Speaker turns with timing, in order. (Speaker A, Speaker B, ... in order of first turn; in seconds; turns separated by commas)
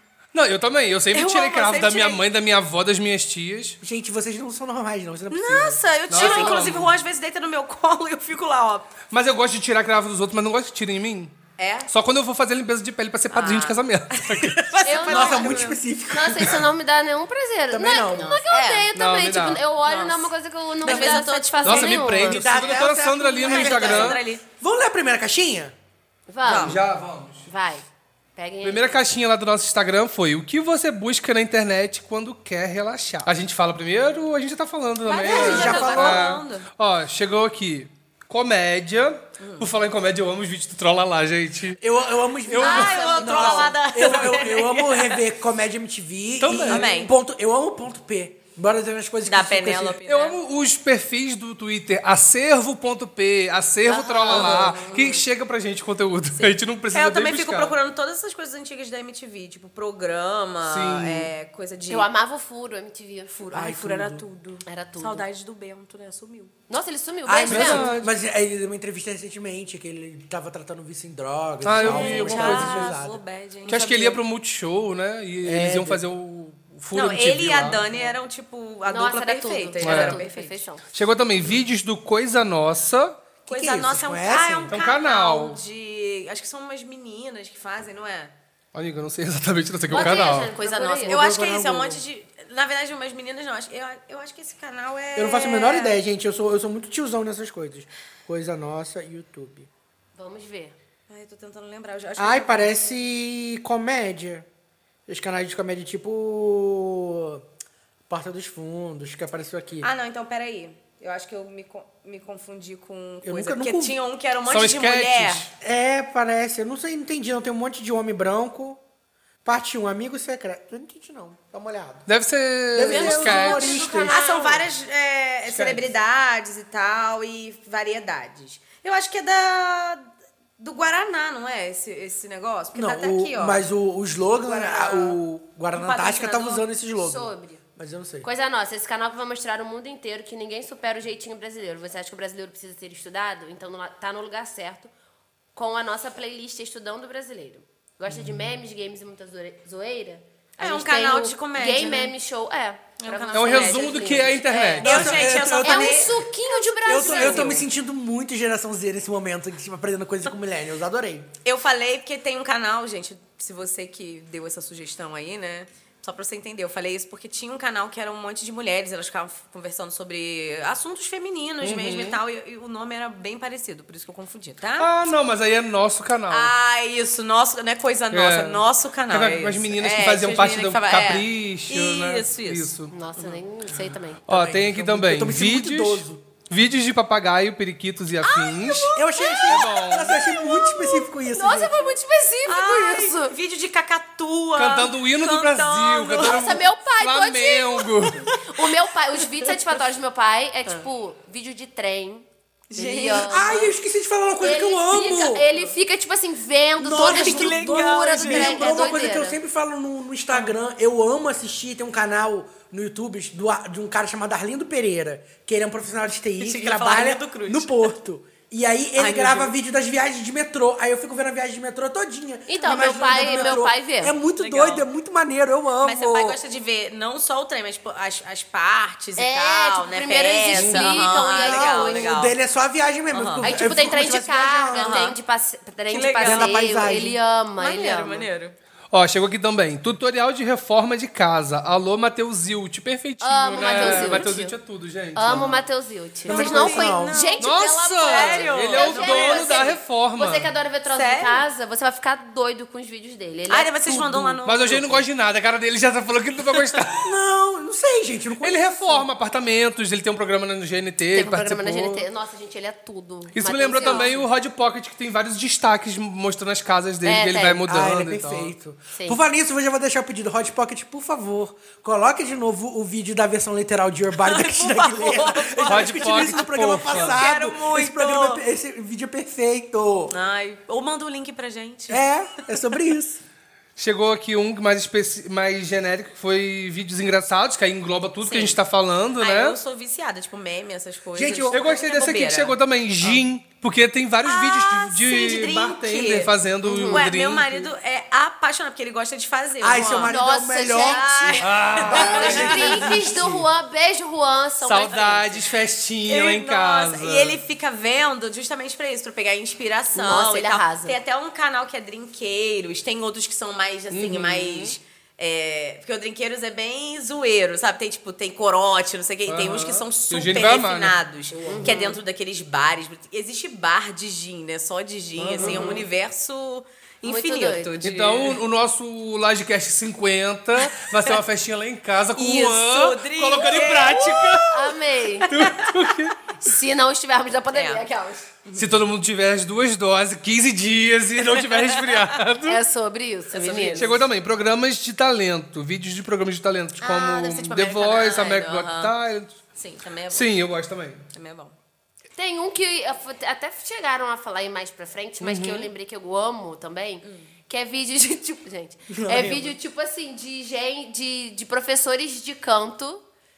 Speaker A: 0.3-3.8, Speaker B: 1.1-2.2, Speaker C: 3.8-6.8, Speaker B: 5.3-8.9, Speaker A: 6.1-6.9, Speaker A: 9.1-11.4, Speaker B: 11.6-11.9, Speaker A: 11.9-14.7, Speaker B: 13.3-15.8, Speaker D: 14.8-22.4, Speaker C: 15.1-16.7, Speaker C: 17.7-18.4, Speaker B: 18.2-18.9, Speaker A: 18.9-19.6, Speaker B: 19.8-22.8, Speaker C: 20.9-21.2, Speaker A: 21.6-24.2, Speaker C: 22.1-25.8, Speaker B: 23.4-24.4, Speaker D: 26.3-26.8, Speaker B: 26.4-26.8, Speaker A: 26.6-27.5, Speaker D: 27.5-28.9, Speaker A: 28.6-41.8, Speaker B: 35.1-36.7, Speaker D: 35.1-36.0, Speaker C: 35.2-36.3, Speaker B: 39.4-39.7, Speaker C: 41.8-50.0, Speaker A: 42.5-43.7, Speaker B: 42.6-45.2, Speaker D: 42.6-43.2, Speaker A: 46.4-46.9, Speaker B: 46.5-47.1, Speaker B: 49.3-50.4, Speaker A: 50.1-57.7, Speaker D: 53.9-54.6, Speaker B: 54.3-55.2, Speaker C: 54.3-54.6, Speaker B: 56.4-62.1, Speaker A: 60.6-61.3, Speaker D: 61.9-63.4, Speaker B: 63.3-66.5, Speaker C: 63.5-64.2, Speaker D: 64.7-65.2, Speaker D: 66.7-67.9, Speaker C: 67.3-73.2, Speaker A: 67.5-68.1, Speaker A: 71.6-73.0, Speaker B: 71.7-74.2, Speaker A: 73.7-78.0, Speaker C: 75.4-76.0, Speaker B: 76.9-80.6, Speaker D: 78.9-80.8, Speaker A: 79.8-80.2, Speaker A: 80.9-83.2, Speaker C: 83.5-84.7, Speaker B: 83.5-88.3, Speaker A: 84.7-85.6, Speaker A: 88.7-90.5, Speaker D: 89.9-91.2, Speaker B: 89.9-96.0, Speaker C: 91.1-92.0, Speaker C: 95.2-99.7, Speaker D: 100.2-100.8, Speaker B: 101.1-102.7, Speaker C: 102.2-104.5, Speaker C: 105.1-107.4, Speaker C: 108.1-109.9, Speaker B: 109.8-115.5, Speaker C: 113.2-114.0, Speaker A: 114.5-115.5, Speaker C: 115.6-118.8, Speaker C: 119.5-122.1, Speaker A: 122.1-123.8, Speaker C: 122.7-124.2, Speaker D: 122.9-124.6, Speaker B: 123.8-130.1, Speaker A: 125.5-125.8, Speaker B: 130.6-133.6, Speaker C: 132.8-138.3, Speaker B: 134.4-135.2, Speaker B: 135.7-136.6, Speaker D: 137.0-137.6, Speaker D: 138.2-144.9, Speaker D: 145.6-155.0, Speaker B: 150.6-152.1, Speaker B: 153.0-156.2, Speaker A: 153.3-155.2, Speaker C: 154.8-156.3, Speaker D: 155.6-157.7, Speaker C: 156.8-161.3, Speaker B: 156.9-157.6, Speaker B: 161.4-174.9, Speaker A: 171.6-172.2, Speaker A: 174.8-176.5, Speaker B: 176.3-183.4, Speaker A: 178.1-182.9, Speaker D: 182.9-184.3, Speaker A: 184.3-188.9, Speaker C: 184.3-186.2, Speaker B: 188.2-189.6, Speaker C: 188.9-191.9, Speaker D: 189.2-189.4, Speaker A: 189.5-190.2, Speaker D: 190.2-193.3, Speaker B: 192.5-196.5, Speaker A: 194.6-198.3, Speaker D: 196.2-203.7, Speaker B: 198.2-199.8, Speaker B: 202.7-203.7, Speaker C: 203.2-205.5, Speaker D: 204.4-209.4, Speaker C: 206.8-226.4, Speaker B: 206.9-208.8, Speaker B: 216.4-217.9, Speaker B: 219.0-219.5, Speaker D: 222.5-224.2, Speaker B: 223.3-223.6, Speaker B: 224.4-224.9, Speaker B: 225.8-232.3, Speaker D: 229.2-232.2, Speaker A: 230.6-230.8, Speaker C: 230.9-235.0, Speaker B: 233.1-233.5, Speaker D: 233.4-238.3, Speaker B: 234.7-235.2, Speaker B: 235.9-236.6, Speaker C: 236.2-237.2, Speaker B: 237.6-238.6, Speaker A: 238.9-245.6, Speaker D: 243.2-244.6, Speaker B: 243.6-244.3, Speaker D: 245.2-253.7, Speaker C: 246.3-247.3, Speaker B: 246.3-249.8, Speaker A: 247.4-250.5, Speaker B: 250.9-251.4, Speaker B: 253.5-255.0, Speaker C: 253.9-254.4, Speaker A: 254.4-257.1, Speaker C: 257.0-259.1, Speaker A: 258.4-262.1, Speaker D: 261.1-264.2, Speaker A: 263.3-268.5, Speaker B: 263.8-264.1, Speaker D: 267.0-267.7, Speaker C: 267.7-280.1, Speaker D: 268.9-269.2, Speaker B: 274.2-278.4, Speaker A: 275.7-277.2, Speaker B: 280.1-282.5, Speaker C: 281.9-283.2, Speaker A: 283.8-289.6, Speaker B: 288.2-288.6, Speaker B: 289.2-293.2, Speaker C: 291.1-291.7, Speaker A: 291.5-297.7, Speaker B: 294.2-296.3, Speaker D: 296.7-297.1, Speaker B: 296.9-303.0, Speaker C: 299.6-303.2, Speaker D: 300.1-305.4, Speaker A: 301.4-303.4, Speaker A: 304.6-307.4, Speaker B: 304.9-305.2, Speaker B: 306.1-328.4, Speaker D: 309.9-311.0, Speaker A: 313.9-314.8, Speaker A: 319.3-321.0, Speaker D: 321.5-322.0, Speaker A: 325.2-325.8, Speaker D: 325.4-325.8, Speaker D: 327.0-327.8, Speaker A: 327.8-334.6, Speaker B: 330.6-331.2, Speaker B: 332.1-334.7, Speaker D: 334.5-335.3, Speaker B: 335.3-335.9, Speaker A: 335.3-336.2, Speaker D: 336.4-338.3, Speaker B: 337.5-337.8, Speaker B: 338.4-338.8, Speaker A: 338.6-342.6, Speaker B: 341.2-342.2, Speaker D: 342.4-344.0, Speaker B: 343.3-344.0, Speaker A: 343.8-349.4, Speaker B: 346.8-348.9, Speaker B: 349.6-350.4, Speaker A: 350.1-351.1, Speaker B: 351.1-351.6, Speaker D: 352.2-363.0, Speaker A: 355.2-355.7, Speaker C: 358.9-359.5